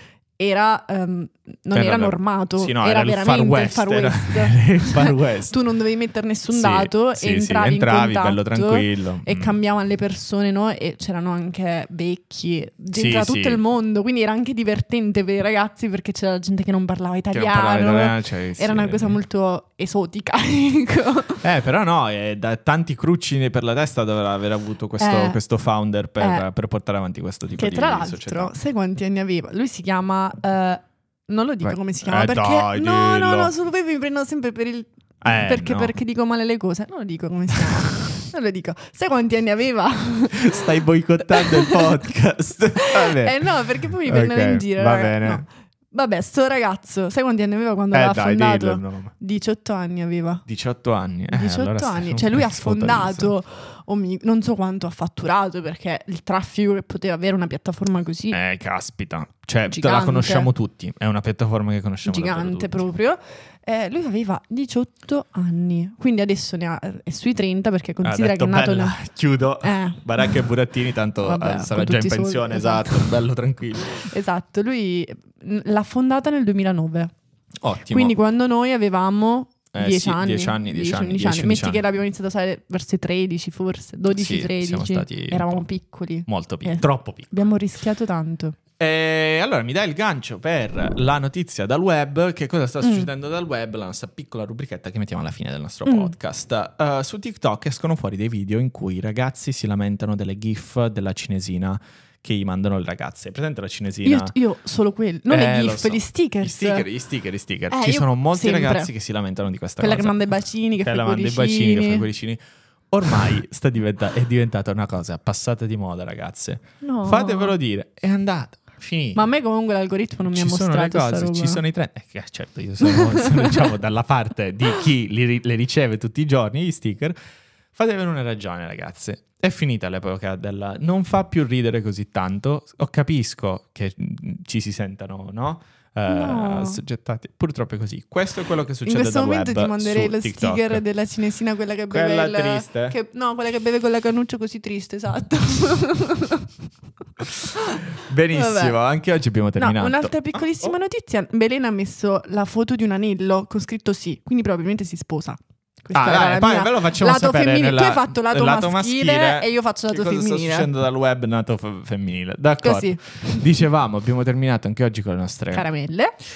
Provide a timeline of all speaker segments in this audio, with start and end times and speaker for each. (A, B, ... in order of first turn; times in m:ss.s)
0:00.4-0:21.4 A
0:01.7-0:05.5 B
0:06.5-0:09.6 B
0:12.9-0:13.6 B
0:17.3-0:19.2 B
0:21.4-0:28.5 B
0:25.0-0:25.4 A
0:26.2-0:26.4 A
0:27.6-0:40.6 A
0:31.7-0:33.5 B
0:35.2-0:36.0 B
0:40.3-0:43.5 B
0:41.3-0:42.0 A
0:42.8-0:50.4 A
0:44.0-0:45.4 B
0:47.9-0:49.1 B
0:50.5-0:53.3 B
0:51.3-0:58.4 A
0:58.3-1:02.9 B
0:59.7-1:00.5 A
1:02.0-1:09.0 A
1:08.0-1:14.1 B
1:09.6-1:10.4 A
1:11.2-1:13.2 A
1:13.9-1:17.1 A
1:17.6-1:18.2 B
1:17.9-1:28.6 A
1:19.7-1:21.8 B
1:24.1-1:25.6 B
1:26.2-1:27.3 B
1:28.8-1:44.3 B
1:32.8-1:33.1 A
1:35.8-1:36.1 A
1:44.0-1:46.9 A
1:45.3-1:50.2 B
1:47.7-1:48.9 A
1:49.8-1:52.1 A
1:50.8-1:52.4 B
1:52.9-1:59.2 B
1:56.8-1:57.5 A
1:59.1-2:01.6 A
2:00.3-2:07.2 B
2:02.8-2:03.7 A
2:07.7-2:20.8 B
2:16.1-2:16.8 A
2:18.8-2:26.6 A
2:21.9-2:23.0 B
2:27.4-2:27.8 A
2:28.0-2:30.4 B
2:28.3-2:28.8 A
2:29.6-2:40.7 A
2:35.9-2:45.6 B
2:42.6-2:43.0 A
2:45.5-2:46.1 A